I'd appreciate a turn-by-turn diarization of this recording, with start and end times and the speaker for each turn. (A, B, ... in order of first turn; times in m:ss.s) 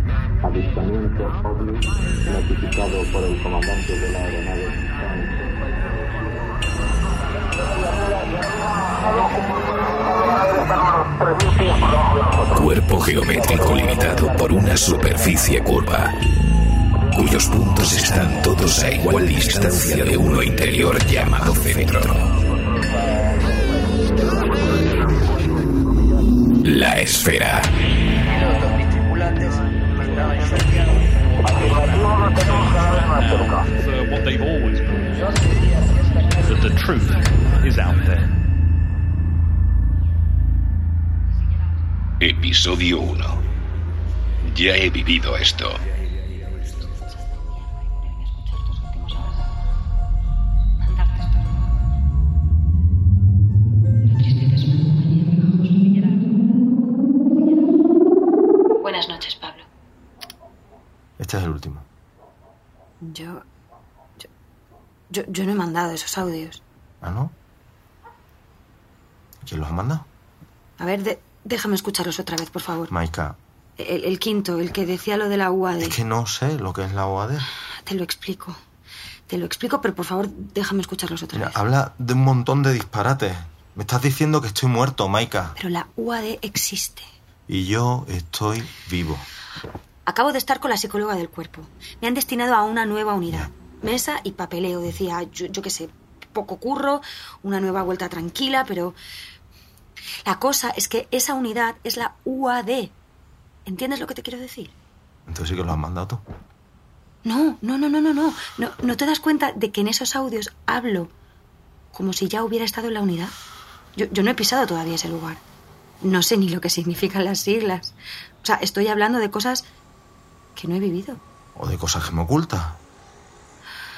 0:00.4-0:05.4 A
0:12.5-0:16.1 B
0:17.1-0:22.3 B
0:26.6-0:27.7 B
0:30.2-0:35.8 C
0:36.4-0:38.3 C
0:42.2-0:43.4 B
0:44.4-0:45.8 B
0:51.0-0:51.3 D
0:54.2-0:56.1 D
0:58.8-0:59.7 D
1:01.2-1:01.8 E
1:03.0-1:03.4 D
1:05.1-1:06.6 D
1:07.0-1:07.3 E
1:09.4-1:10.1 E
1:10.8-1:12.9 D
1:12.9-1:13.4 E
1:13.8-1:16.0 D
1:15.8-1:17.5 E
1:17.8-1:18.6 D
1:19.3-1:21.6 D
1:21.3-1:25.5 E
1:25.6-1:27.1 D
1:27.5-1:29.3 E
1:30.1-1:39.0 D
1:40.2-1:42.9 D
1:43.6-1:44.7 D
1:45.2-1:46.2 E
1:47.2-1:51.1 D
1:51.9-1:53.4 D
1:54.0-1:55.4 D
1:56.0-1:59.7 D
2:00.6-2:01.2 D
2:01.6-2:02.8 E